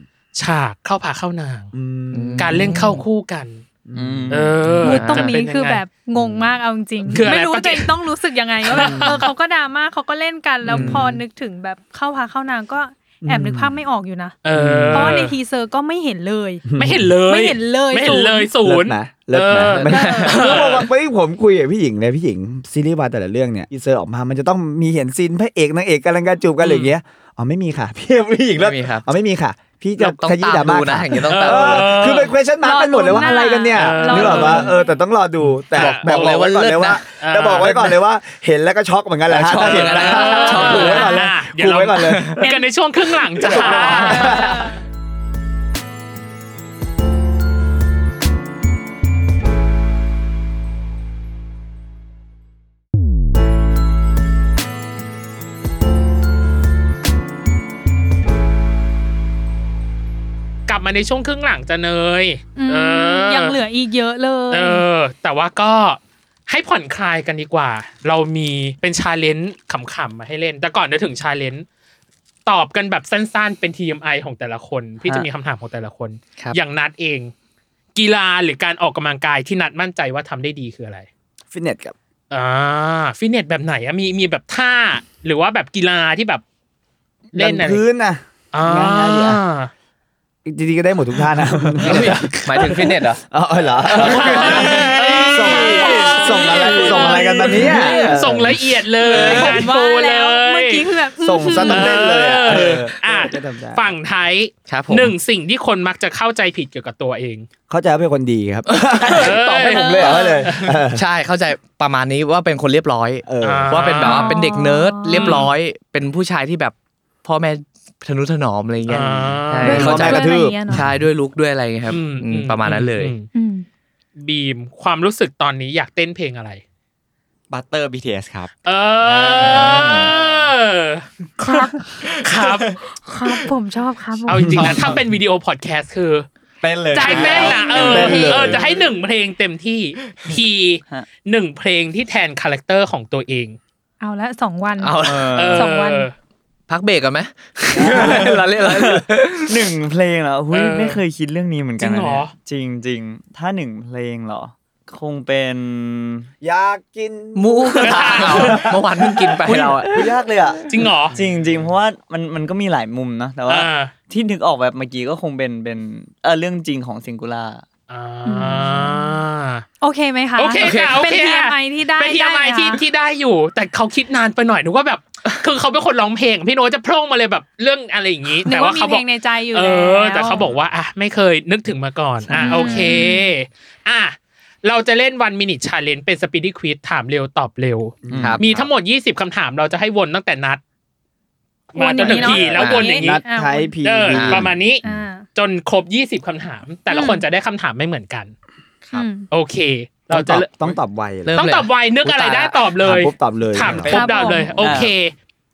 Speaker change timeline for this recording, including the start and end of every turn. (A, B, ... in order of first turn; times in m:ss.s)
0:00.4-0:01.7 A
0:01.7-0:03.0 B
0:02.1-0:03.0 C
0:02.4-0:03.6 A
0:03.9-0:05.1 B
0:04.0-0:04.6 D
0:04.3-0:05.8 A
0:04.8-0:14.4 E
0:04.9-0:05.3 C
0:06.2-0:07.2 B
0:07.1-0:08.0 A
0:08.6-0:09.3 A
0:10.7-0:11.2 B
0:10.7-0:11.1 C
0:13.2-0:13.8 B
0:14.4-0:15.4 A
0:14.5-0:15.2 B
0:14.9-0:16.6 E
0:16.7-0:17.1 B
0:16.8-0:20.9 A
0:17.2-0:18.5 E
0:18.6-0:42.6 B
0:19.7-0:20.6 C
0:19.9-0:20.5 E
0:26.6-0:26.9 A
0:28.6-0:29.1 C
0:30.0-0:32.0 C
0:31.3-0:32.4 A
0:32.6-0:35.0 E
0:33.1-0:34.7 A
0:35.7-0:36.4 A
0:35.7-0:37.0 C
0:37.2-0:37.8 A
0:39.3-0:41.1 C
0:39.6-0:44.6 A
0:40.2-0:41.3 E
0:43.4-0:44.6 B
0:43.5-0:44.7 E
1:00.7-1:03.6 A
1:02.6-1:04.9 E
1:04.5-1:11.7 A
1:12.5-1:17.3 A
1:18.0-1:21.1 A
1:21.5-1:22.0 B
1:22.3-1:26.4 A
1:27.3-1:29.4 B
1:27.3-1:27.8 A
1:28.5-1:29.7 A
1:30.4-1:38.6 B
1:31.8-1:32.4 A
1:31.8-1:33.2 C
1:34.0-1:47.5 A
1:34.2-1:38.0 E
1:37.4-1:38.2 C
1:39.1-1:42.1 E
1:39.2-1:39.5 C
1:41.2-1:43.9 B
1:44.7-1:45.2 C
1:47.7-1:51.0 B
1:48.8-1:49.1 C
1:49.2-1:50.7 A
1:49.7-1:50.4 E
1:50.9-2:03.1 C
1:53.3-1:53.9 B
1:53.4-1:54.4 A
1:54.0-1:55.5 E
1:55.1-1:55.5 A
1:58.9-1:59.9 A
1:59.6-2:00.9 E
1:59.7-2:00.9 B
2:01.9-2:03.3 A
2:03.3-2:03.7 E
2:04.2-2:06.6 A
2:07.5-2:08.5 F
2:08.6-2:11.6 A
2:09.0-2:10.4 F
2:09.8-2:10.1 C
2:11.4-2:12.0 E
2:12.0-2:13.3 F
2:12.2-2:12.8 A
2:12.8-2:14.9 E
2:14.3-2:16.3 A
2:14.5-2:14.9 B
2:16.6-2:18.6 F
2:16.9-2:18.6 E
2:17.0-2:23.6 A
2:17.7-2:18.6 B
2:24.0-2:26.1 E
2:24.8-2:25.4 C
2:25.0-2:25.7 D
2:25.4-2:26.1 A
2:26.7-2:29.6 C
2:27.8-2:28.3 B
2:27.9-2:36.3 D
2:30.5-2:31.0 A
2:31.8-2:32.3 A
2:36.4-2:40.7 B
2:37.4-2:40.0 C
2:37.8-2:38.6 A
2:39.4-2:40.6 D
2:40.7-2:41.2 A
2:41.1-2:47.6 D
2:43.5-2:43.9 A
2:47.9-2:49.6 A
2:48.2-2:49.2 E
2:49.8-2:52.8 E
2:50.4-3:10.6 A
2:50.6-2:51.0 C
2:58.4-3:00.5 E
3:02.3-3:03.3 E
3:08.0-3:08.6 B
3:08.1-3:08.4 C
3:11.7-3:13.2 A
3:11.7-3:13.8 E
3:12.1-3:15.0 B
3:12.6-3:12.9 C
3:13.8-3:14.8 A
3:14.1-3:14.4 C
3:14.8-3:15.3 E
3:15.4-3:18.3 A
3:16.9-3:17.2 E
3:18.9-3:19.3 E
3:19.3-3:20.5 A
3:20.1-3:21.4 B
3:21.3-3:22.6 C
3:21.4-3:25.1 A
3:22.8-3:24.0 B
3:23.6-3:24.1 F
3:23.9-3:24.8 E
3:24.6-3:24.9 D